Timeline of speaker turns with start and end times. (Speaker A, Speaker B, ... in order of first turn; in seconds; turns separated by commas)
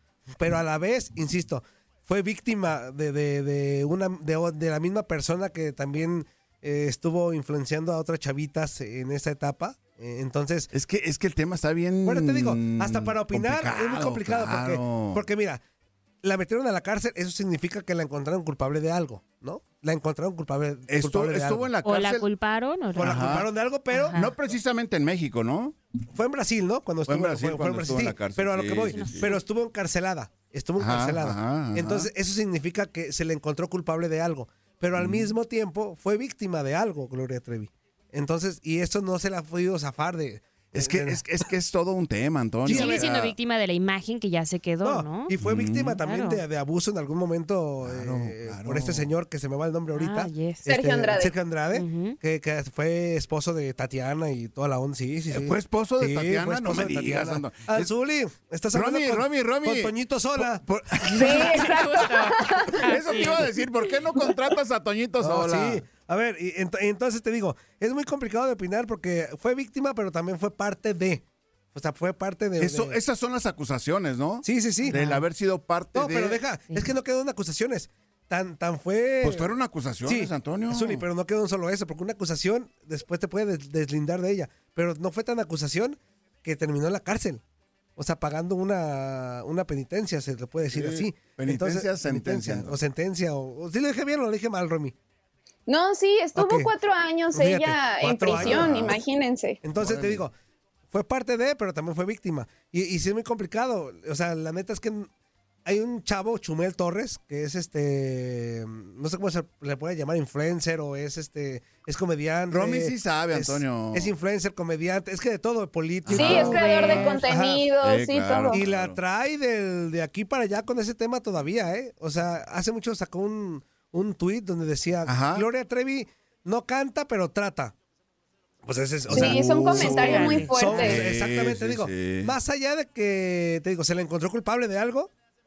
Speaker A: 0.4-10.7, Speaker B: 10.7-15.2, Speaker A: 12.0-15.6, Speaker A: 16.2-21.7, Speaker B: 20.9-22.3, Speaker C: 21.8-23.2, Speaker A: 23.0-24.2, Speaker B: 23.0-23.5, Speaker C: 23.9-24.4, Speaker B: 24.1-25.8, Speaker A: 26.1-41.2, Speaker B: 27.1-29.4, Speaker C: 28.9-29.4, Speaker B: 30.8-32.1, Speaker B: 34.9-35.3, Speaker B: 40.7-43.3, Speaker A: 42.6-43.1, Speaker C: 42.7-45.3, Speaker A: 44.8-60.6, Speaker B: 45.4-46.0, Speaker C: 46.0-46.4, Speaker B: 47.8-49.1, Speaker C: 49.9-50.7, Speaker D: 50.7-51.3, Speaker C: 51.7-52.2, Speaker B: 55.3-57.9, Speaker B: 58.7-61.8, Speaker C: 61.0-63.5, Speaker D: 61.2-62.8, Speaker B: 62.8-65.8, Speaker A: 65.2-71.2, Speaker A: 71.7-73.0, Speaker B: 72.6-76.4, Speaker A: 74.4-75.1, Speaker C: 74.8-75.2, Speaker A: 75.9-79.5, Speaker B: 79.2-81.0, Speaker A: 80.0-87.4, Speaker A: 88.0-94.9, Speaker B: 90.7-92.8, Speaker D: 95.7-99.6, Speaker A: 96.3-96.7, Speaker A: 97.3-98.8, Speaker B: 98.3-99.0, Speaker A: 99.6-100.3, Speaker B: 99.7-100.2, Speaker A: 100.9-105.1, Speaker A: 105.7-117.7, Speaker B: 112.5-114.1, Speaker B: 116.0-119.0, Speaker D: 116.1-118.6, Speaker C: 116.4-117.3, Speaker A: 118.5-127.7, Speaker B: 125.0-125.4, Speaker A: 128.6-135.1, Speaker B: 129.1-132.3, Speaker D: 129.1-131.0, Speaker C: 129.9-130.9